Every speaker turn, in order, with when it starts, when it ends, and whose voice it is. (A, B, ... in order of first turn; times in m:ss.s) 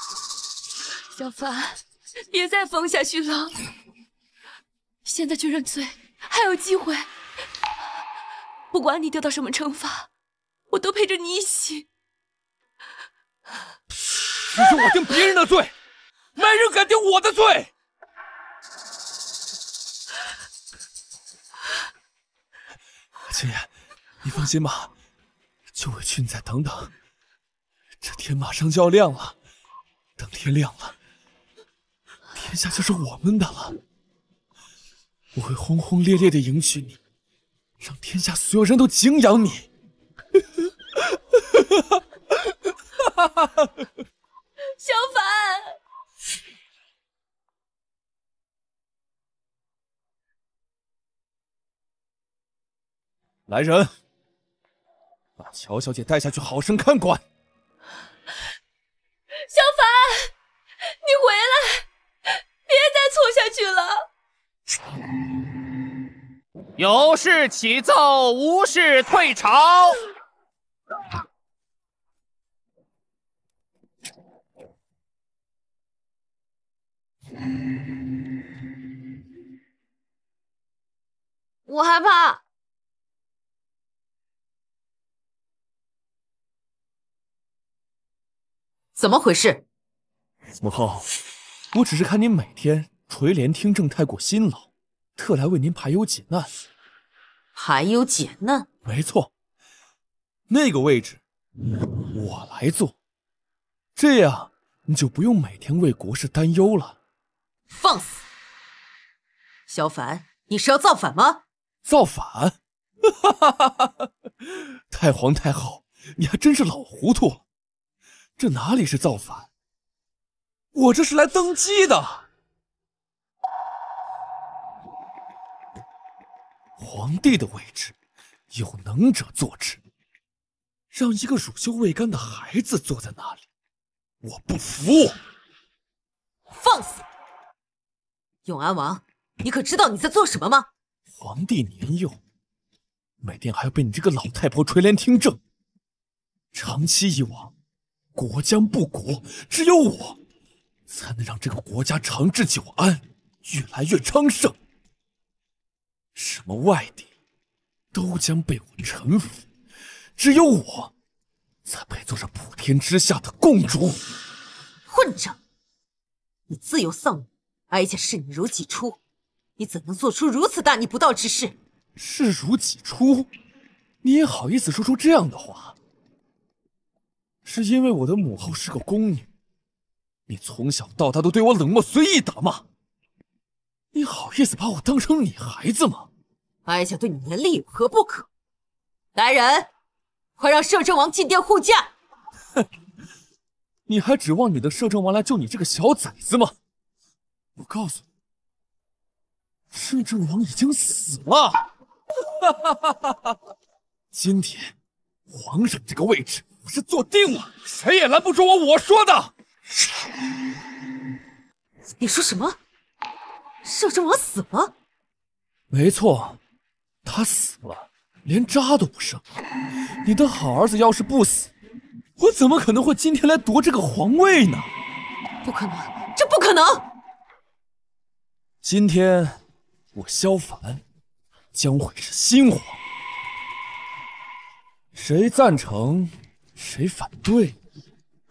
0:01.1-0:03.5 A
0:05.0-0:07.1 A
0:08.7-0:10.1 A
0:10.7-0:11.8 A
0:14.5-0:15.7 B
0:16.4-0:17.7 B
0:23.3-0:23.7 B
0:24.2-0:24.9 B
0:25.7-0:26.9 B
0:28.0-0:29.4 B
0:30.2-0:30.9 B
0:32.3-0:33.8 B
0:35.3-0:37.0 B
0:37.8-0:39.7 B
0:41.4-0:42.0 B
0:43.2-0:43.7 B
0:44.8-0:45.8 A
0:53.5-0:53.9 B
0:55.4-0:57.2 B
0:59.5-1:00.3 A
1:01.0-1:01.8 A
1:02.7-1:04.0 A
1:06.8-1:10.0 C
1:21.7-1:22.4 D
1:29.0-1:29.6 D
1:30.6-1:31.0 B
1:31.7-1:36.5 B
1:37.5-1:38.7 D
1:38.8-1:39.3 B
1:40.5-1:41.2 B
1:42.1-1:42.9 B
1:44.0-1:47.0 B
1:47.7-1:48.2 D
1:49.7-1:51.4 D
1:51.8-1:53.9 B
1:54.9-1:57.4 B
1:58.4-1:59.5 B
2:00.7-2:02.2 B
2:06.8-2:07.9 B
2:08.5-2:09.8 B
2:10.9-2:13.4 B
2:14.2-2:15.2 B
2:16.5-2:17.0 D
2:18.4-2:20.7 D
2:21.1-2:22.2 B
2:23.2-2:25.4 B
2:26.5-2:27.5 B
2:28.1-2:30.2 B
2:30.9-2:34.6 B
2:36.2-2:37.1 B
2:37.9-2:39.4 B
2:40.2-2:40.9 B
2:41.6-2:44.0 B
2:44.9-2:45.4 D
2:46.5-2:49.0 D
2:49.6-2:51.5 D
2:52.0-2:53.3 B
2:54.0-2:55.8 B
2:57.4-2:59.3 B
3:00.3-3:02.6 B
3:03.9-3:06.1 B
3:06.6-3:08.3 D
3:09.1-3:09.7 D
3:10.4-3:11.9 D
3:13.9-3:16.5 B
3:17.6-3:18.0 B
3:19.7-3:21.6 B
3:22.4-3:23.1 B
3:24.1-3:24.7 B
3:25.3-3:29.3 B
3:32.0-3:32.6 D
3:33.6-3:34.7 D
3:35.7-3:36.4 B
3:37.0-3:39.2 B
3:40.0-3:41.5 B
3:42.2-3:44.7 B
3:45.4-3:46.8 D
3:48.6-3:49.4 B
3:49.9-3:50.8 B
3:51.5-3:52.8 B
3:54.9-3:57.6 B